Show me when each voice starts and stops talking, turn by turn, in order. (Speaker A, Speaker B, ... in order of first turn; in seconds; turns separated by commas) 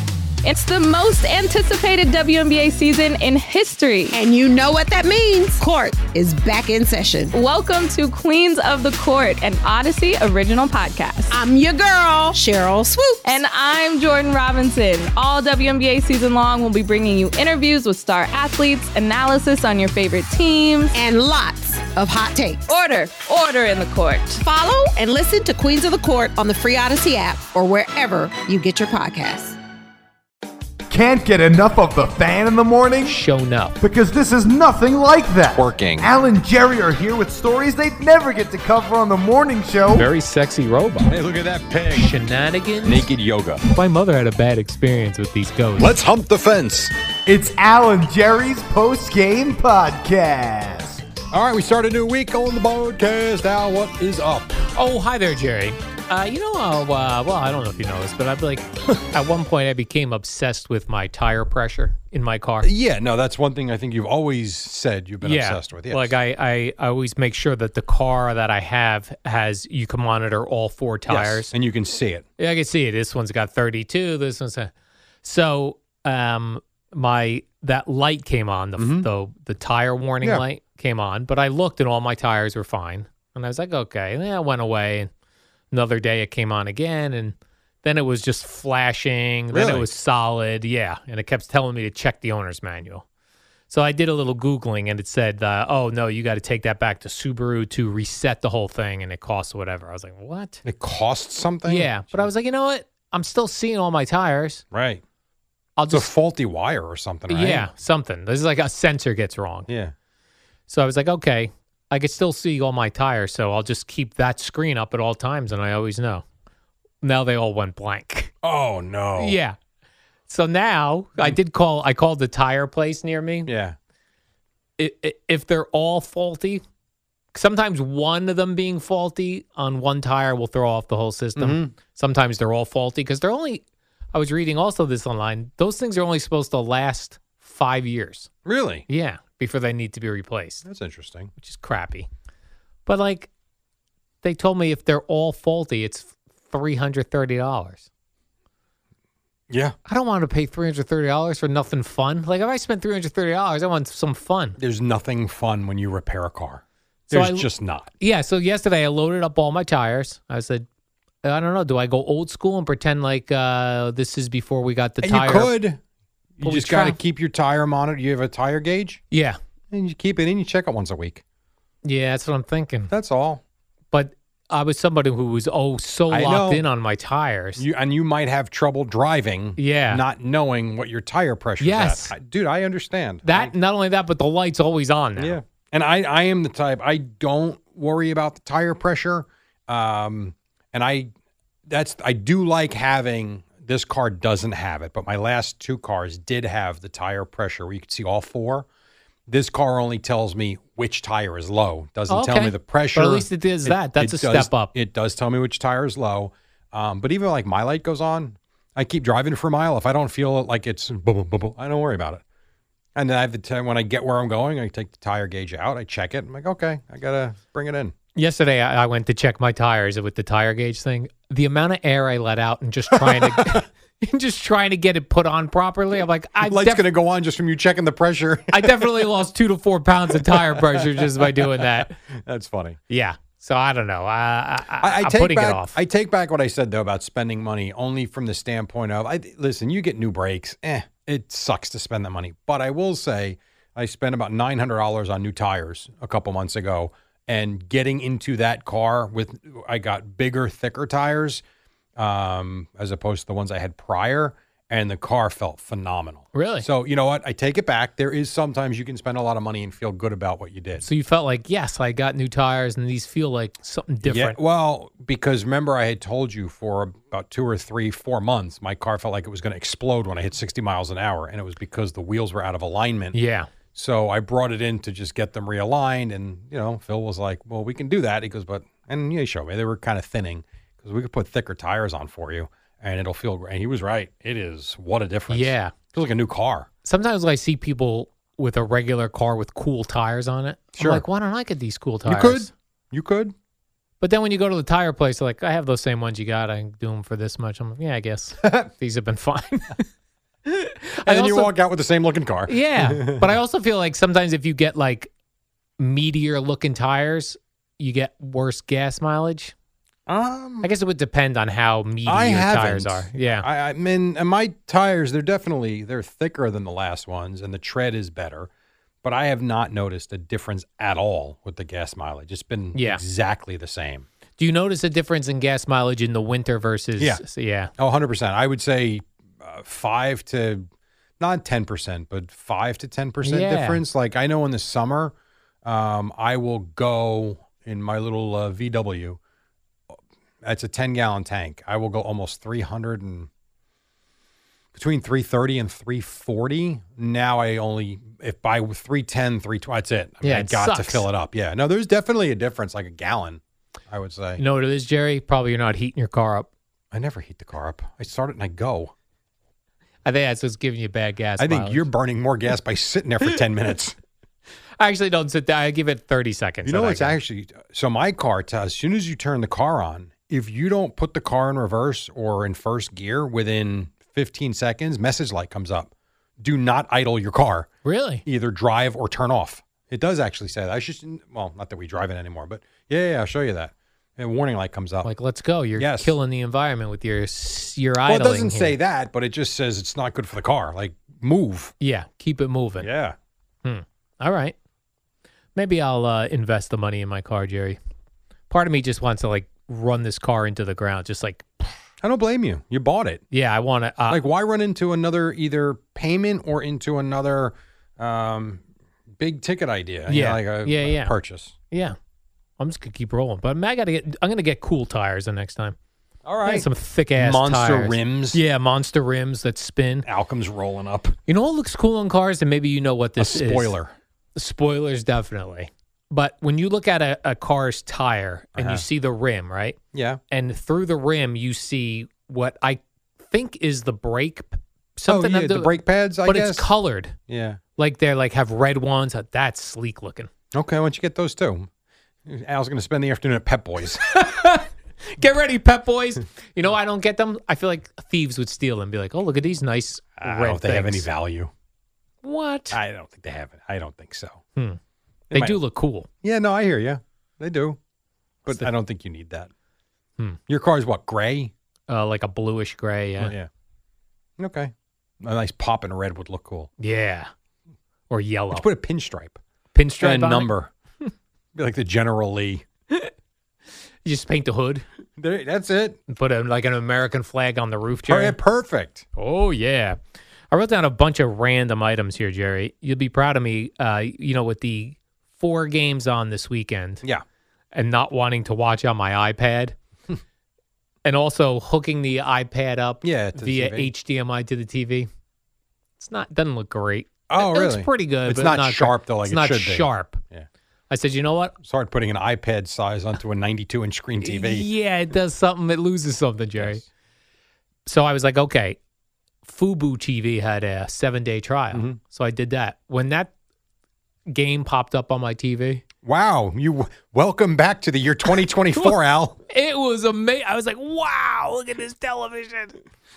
Speaker A: 0.4-4.2, Speaker B: 4.1-7.4, Speaker A: 7.3-11.4, Speaker B: 11.3-13.4, Speaker A: 13.2-20.9, Speaker B: 20.9-22.6, Speaker A: 22.7-24.4, Speaker B: 24.4-29.6, Speaker C: 30.9-33.2, Speaker D: 33.0-33.8, Speaker C: 33.8-40.1, Speaker E: 35.5-36.1, Speaker D: 39.9-41.2, Speaker E: 41.0-42.1, Speaker D: 41.9-43.1, Speaker E: 42.8-43.6, Speaker D: 43.7-45.9, Speaker E: 45.8-46.9, Speaker C: 47.3-51.0, Speaker E: 51.3-54.5, Speaker D: 54.7-62.7, Speaker E: 62.6-66.2, Speaker D: 65.2-71.5, Speaker E: 71.1-72.3, Speaker D: 72.4-74.7, Speaker D: 75.2-85.1, Speaker E: 78.8-79.1, Speaker D: 85.7-93.0, Speaker E: 89.5-89.9, Speaker D: 93.7-100.6, Speaker E: 100.6-102.3, Speaker D: 101.7-104.6, Speaker E: 104.7-105.0, Speaker D: 105.8-106.1, Speaker E: 105.9-107.7, Speaker D: 107.3-109.7, Speaker E: 109.7-109.9, Speaker D: 110.7-116.2, Speaker D: 117.0-118.3, Speaker E: 118.4-119.4, Speaker D: 119.2-119.6, Speaker D: 120.3-123.5, Speaker E: 123.5-123.8, Speaker D: 124.8-126.6, Speaker D: 127.3-138.3, Speaker E: 131.4-131.7, Speaker E: 138.4-138.9, Speaker D: 138.9-140.7, Speaker E: 140.6-141.3, Speaker D: 141.4-142.1, Speaker D: 142.9-143.3, Speaker D: 144.2-147.9, Speaker E: 149.5-149.8, Speaker D: 149.9-154.6, Speaker E: 154.6-157.9, Speaker D: 157.1-157.5, Speaker D: 158.0-160.7, Speaker D: 161.2-165.6, Speaker E: 165.0-165.8, Speaker E: 166.4-169.0, Speaker D: 166.4-167.0, Speaker D: 169.1-169.4, Speaker E: 169.7-171.2, Speaker D: 171.8-172.9, Speaker E: 172.9-173.4, Speaker D: 173.9-177.6, Speaker E: 176.1-176.7, Speaker E: 177.6-183.5, Speaker D: 179.6-180.0, Speaker D: 181.6-182.1, Speaker D: 183.2-185.4, Speaker E: 185.2-191.1, Speaker E: 191.7-198.7, Speaker E: 199.3-212.2, Speaker D: 202.1-204.7, Speaker E: 212.9-217.9, Speaker D: 218.2-226.9, Speaker E: 222.9-223.7, Speaker E: 226.4-229.1, Speaker D: 228.5-232.0, Speaker E: 230.1-232.8, Speaker D: 232.9-235.8, Speaker E: 234.8-251.4, Speaker E: 252.0-260.9, Speaker D: 256.3-256.7, Speaker D: 260.8-264.4, Speaker E: 264.0-273.2, Speaker D: 273.1-273.5, Speaker E: 273.7-286.7, Speaker D: 285.3-285.7, Speaker D: 286.9-292.5, Speaker E: 290.8-291.0, Speaker E: 292.1-293.4, Speaker D: 294.0-299.9, Speaker E: 298.4-298.7, Speaker D: 300.5-301.5, Speaker E: 301.1-303.3, Speaker D: 302.5-305.1, Speaker D: 305.8-309.5, Speaker E: 310.1-310.7, Speaker D: 310.6-313.5, Speaker E: 312.1-318.5, Speaker E: 319.0-324.1, Speaker D: 322.7-323.0, Speaker D: 324.4-327.7, Speaker E: 327.0-327.2, Speaker E: 327.8-330.7, Speaker E: 331.2-339.2, Speaker D: 333.2-333.8, Speaker E: 340.4-343.3, Speaker E: 344.7-354.4, Speaker D: 350.2-351.1, Speaker D: 354.4-356.5, Speaker E: 356.9-358.9, Speaker D: 360.1-361.9, Speaker E: 361.4-364.0, Speaker D: 364.8-367.2, Speaker E: 366.6-377.7, Speaker D: 377.9-378.2, Speaker E: 378.2-385.1, Speaker D: 385.0-388.8, Speaker E: 385.8-386.1, Speaker E: 388.0-391.8, Speaker D: 391.8-392.9, Speaker E: 392.8-393.2, Speaker D: 393.6-394.6, Speaker D: 395.6-397.8, Speaker D: 398.5-401.8, Speaker E: 402.0-403.2, Speaker D: 403.3-404.2, Speaker E: 404.1-408.6, Speaker E: 409.2-411.6, Speaker D: 410.1-411.1, Speaker D: 411.7-412.0, Speaker D: 412.6-415.8, Speaker E: 416.2-418.4, Speaker D: 416.4-420.1, Speaker E: 420.0-421.2, Speaker D: 421.3-423.7, Speaker E: 423.2-423.9, Speaker D: 424.4-429.8, Speaker E: 428.6-428.9, Speaker E: 429.9-430.2, Speaker D: 430.3-435.7, Speaker E: 435.1-436.7, Speaker D: 436.2-437.2, Speaker E: 437.3-437.6, Speaker D: 437.8-440.3, Speaker E: 440.5-441.7, Speaker E: 442.3-444.0, Speaker D: 444.1-451.1, Speaker E: 450.2-451.5, Speaker D: 452.2-452.8, Speaker E: 452.7-454.4, Speaker E: 455.3-455.6, Speaker D: 455.3-456.1, Speaker E: 456.2-457.8, Speaker E: 458.4-459.5, Speaker E: 460.5-461.5, Speaker D: 461.9-463.4, Speaker E: 463.2-463.5, Speaker E: 464.4-466.7, Speaker D: 466.8-467.3, Speaker D: 468.1-468.6, Speaker E: 468.5-469.4, Speaker D: 469.7-470.5, Speaker E: 470.0-470.7, Speaker E: 471.5-472.7, Speaker D: 474.0-474.9, Speaker E: 475.2-476.0, Speaker D: 476.1-478.4, Speaker E: 478.0-479.1, Speaker D: 479.2-480.0, Speaker D: 480.5-487.0, Speaker D: 487.7-489.8, Speaker D: 491.1-495.1, Speaker E: 493.0-493.9, Speaker D: 496.0-500.2, Speaker E: 497.3-500.5, Speaker D: 500.9-501.6, Speaker E: 501.6-504.7, Speaker D: 504.2-506.8, Speaker E: 506.6-506.9, Speaker D: 507.9-508.8, Speaker D: 509.4-513.3, Speaker E: 511.7-512.0, Speaker D: 514.3-515.8, Speaker E: 516.0-519.4, Speaker D: 519.5-522.8